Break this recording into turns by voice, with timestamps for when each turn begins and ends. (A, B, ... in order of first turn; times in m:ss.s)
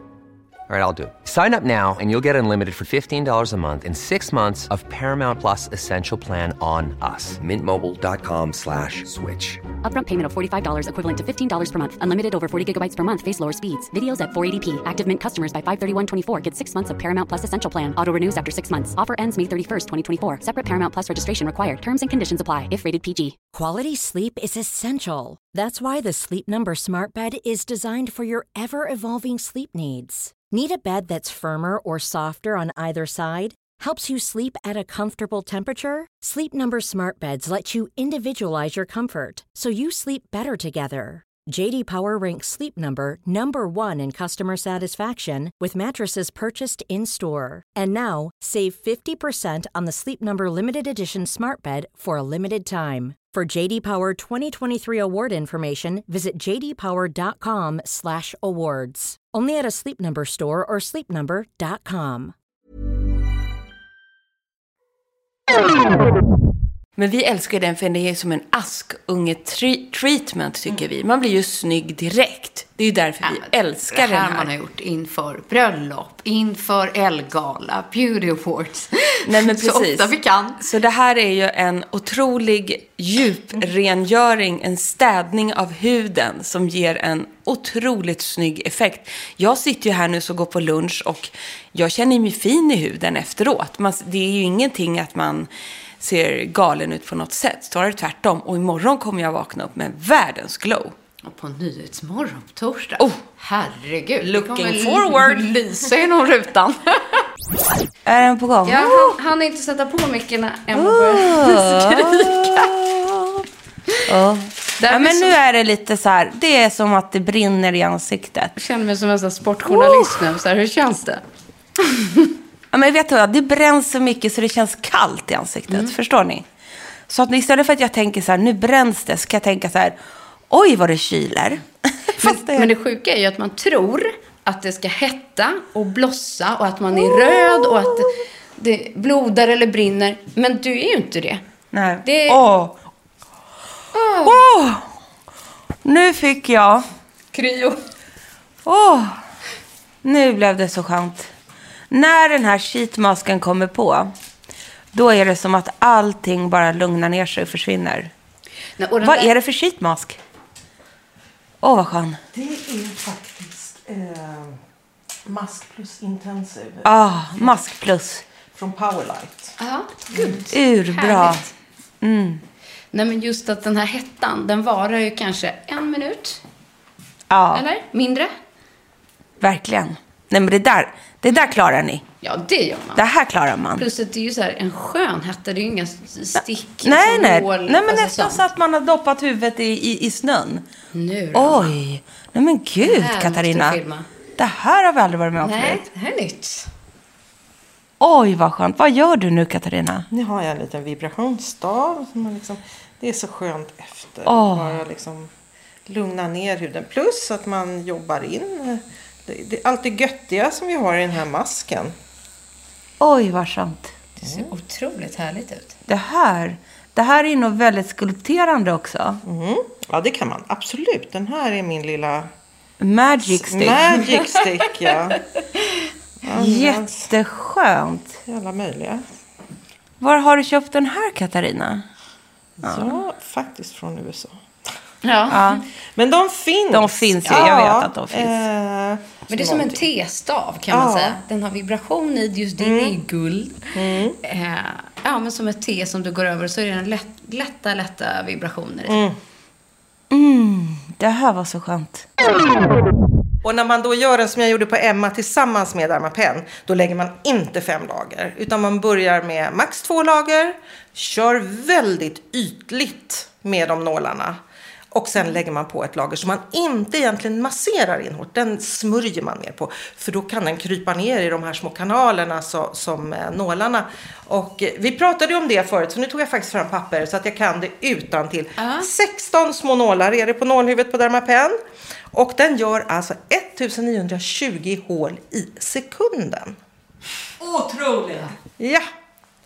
0:00.7-0:09.6 A
0:09.8-0:23.4 B
0:23.5-1:02.3 C
1:07.0-1:14.5 D
1:13.2-1:20.6 E
1:19.2-1:35.5 D
1:36.0-1:40.9 D
1:41.2-1:47.2 E
1:44.2-1:45.5 D
1:48.1-1:49.2 D
1:48.7-1:52.7 E
1:50.7-1:53.4 D
1:54.1-1:58.5 D
1:54.8-1:55.4 E
1:58.6-2:01.2 E
1:59.7-2:00.2 D
2:01.8-2:02.3 E
2:02.7-2:06.5 D
2:07.1-2:10.0 D
2:10.5-2:12.7 D
2:12.2-2:21.4 E
2:17.0-2:18.1 D
2:21.7-2:22.8 D
2:22.0-2:22.4 E
2:23.9-2:24.4 E
2:24.2-2:24.8 D
2:25.8-2:26.9 D
2:27.3-2:27.9 E
2:28.7-2:29.2 D
2:30.0-2:31.3 D
2:31.9-2:34.1 D
2:34.9-2:38.1 D
2:38.8-2:39.3 E
2:39.0-2:40.2 D
2:41.6-2:42.2 D
2:42.3-2:44.6 F
2:45.2-2:47.6 F
2:46.8-2:48.2 D
2:48.5-2:49.6 F
2:49.6-2:51.5 E
2:50.5-2:51.4 D
2:52.0-2:52.4 D
2:52.9-2:56.4 E
2:57.3-2:57.6 D
2:57.5-2:58.3 E
2:59.4-3:02.0 D
3:02.2-3:03.0 E
3:03.0-3:03.9 D
3:03.8-3:08.4 E
3:06.4-3:10.6 D
3:10.9-3:11.7 E
3:11.3-3:13.8 D
3:12.8-3:14.1 E
3:14.4-3:15.8 D
3:15.4-3:16.7 E
3:18.0-3:20.1 D
3:20.1-3:25.3 F
3:24.3-3:24.8 D
3:25.9-3:31.9 F
3:33.0-3:33.9 D
3:34.2-3:35.8 E
3:34.2-3:34.5 F
3:35.9-3:39.2 D
3:39.2-3:42.3 F
3:42.8-3:44.0 D
3:43.3-3:45.2 F
3:46.2-3:47.1 F
3:46.3-3:48.2 D
3:48.3-3:49.0 F
3:50.0-3:51.8 D
3:52.6-3:54.4 F
3:52.6-3:53.0 D
3:55.0-3:55.4 E
3:55.3-3:55.6 D
3:56.0-3:59.8 F
3:56.7-3:58.4 D
3:59.3-4:09.0 E
4:00.7-4:01.2 F
4:02.6-4:03.0 F
4:03.8-4:04.2 F
4:08.9-4:09.2 F
4:10.1-4:12.1 D
4:13.4-4:24.4 F
4:24.9-4:41.6 F
4:38.6-4:38.9 E
4:42.1-4:46.6 F
4:47.4-4:48.3 D
4:48.6-4:48.9 F